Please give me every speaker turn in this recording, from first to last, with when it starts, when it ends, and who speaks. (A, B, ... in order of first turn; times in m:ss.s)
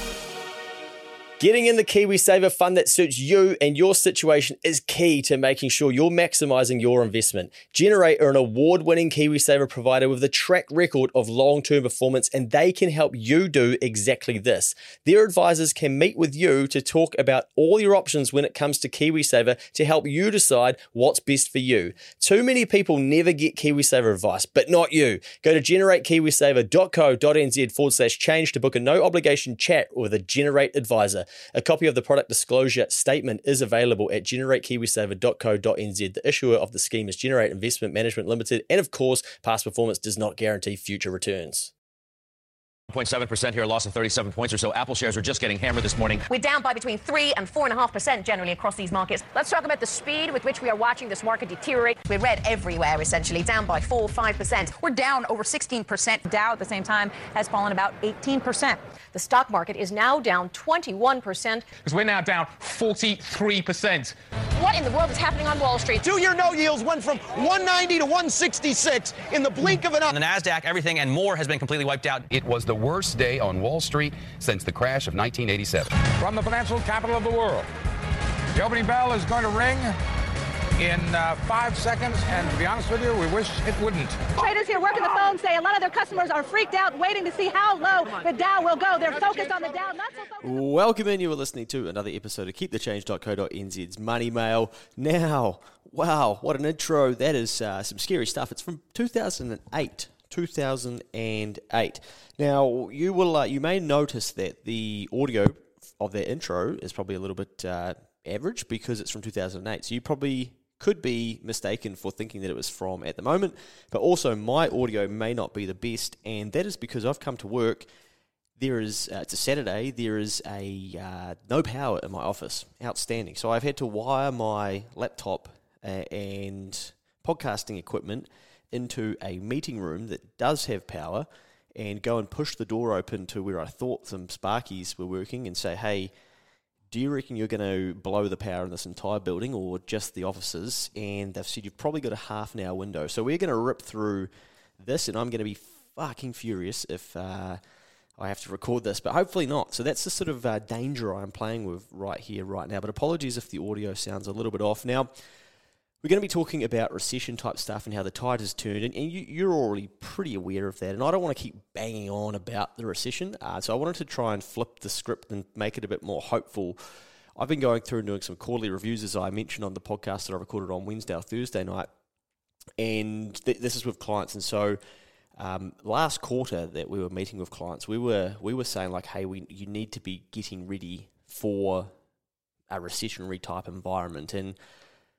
0:01.4-0:41.7 A
0:42.9-0:46.3 B
0:46.3-0:54.8 C
0:54.8-0:58.8 D
0:59.1-1:01.7 C
1:01.8-1:04.2 E
1:04.6-1:06.0 C
1:06.0-1:10.1 F
1:10.1-1:12.3 G
1:12.3-1:15.9 H
1:16.1-1:17.7 I
1:18.5-1:20.0 I
1:20.8-1:24.3 I
1:24.3-1:30.4 J
1:30.4-1:57.9 A
1:58.6-2:16.1 A
2:16.9-2:27.6 A
2:28.2-2:35.1 A
2:36.0-2:46.8 A
2:47.4-2:51.9 A
2:52.8-2:54.8 A
2:55.4-3:01.9 A
3:02.7-3:04.6 A